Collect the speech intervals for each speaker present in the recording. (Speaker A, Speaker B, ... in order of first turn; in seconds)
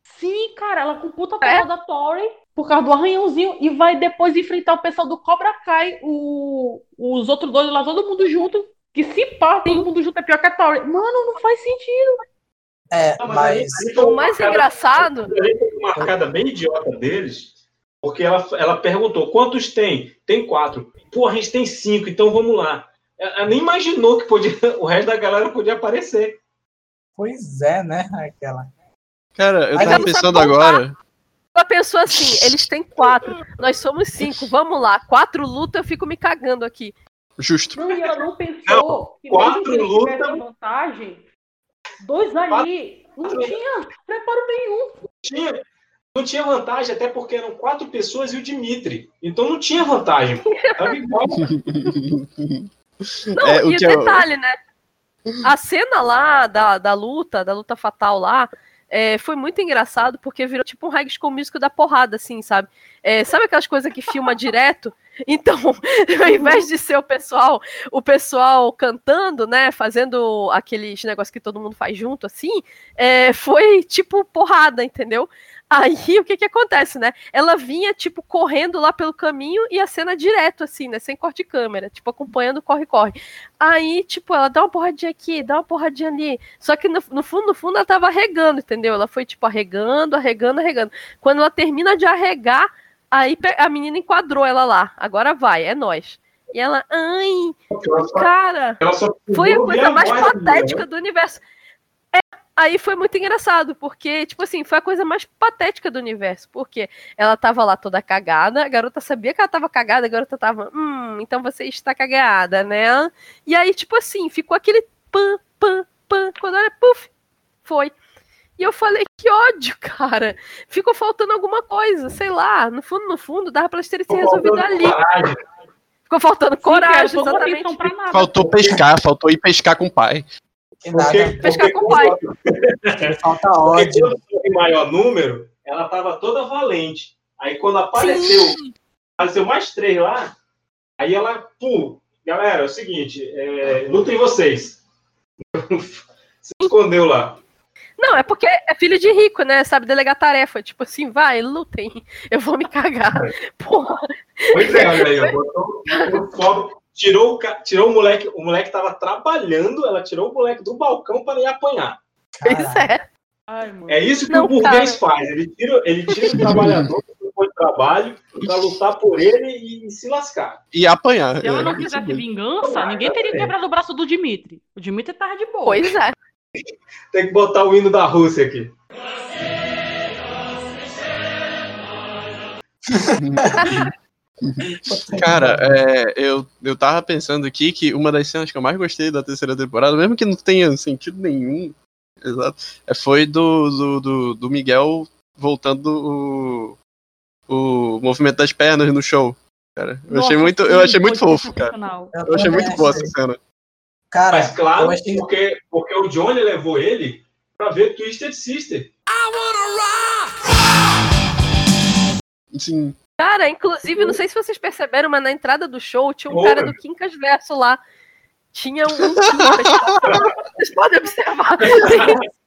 Speaker A: 0.1-12.2, 37.8-41.2, 42.0-44.9, 66.3-66.7, 126.6-128.7, 163.5-164.2, 171.4-175.8, 200.1-202.1
Speaker B: 12.9-13.9, 27.2-28.7, 29.7-30.1, 130.8-132.2, 133.0-134.1, 162.3-162.9, 182.9-183.7, 184.8-185.7, 202.1-203.1, 204.1-205.2
Speaker C: 13.2-26.4, 38.7-40.4, 43.2-43.6, 45.2-45.6, 46.1-51.5, 97.7-98.3, 98.8-100.8, 124.1-125.4, 130.9-133.1, 133.7-138.6, 139.2-140.3, 141.0-144.8, 145.5-147.4, 154.5-162.0, 163.9-170.6, 172.6-173.5, 177.1-178.7, 204.3-208.9, 216.3-216.8, 221.7-222.2
Speaker D: 13.9-15.3, 29.8-30.8, 31.6-37.0, 50.7-51.0, 53.4-54.6, 55.4-97.6, 98.1-98.8, 99.3-101.4, 102.1-117.1, 117.7-117.9, 118.6-125.0, 126.1-127.9, 131.4-132.2, 138.0-138.7, 148.0-155.3, 155.9-156.2, 162.5-163.0, 164.3-165.0, 175.7-176.2, 213.2-217.8, 218.5-222.2
Speaker E: 29.4-31.0, 37.4-37.8, 51.4-54.3, 128.1-130.3, 166.4-166.8, 170.7-172.2, 183.2-183.9, 184.4-196.8, 197.5-201.8, 202.3-203.4, 212.5-212.9, 219.1-220.0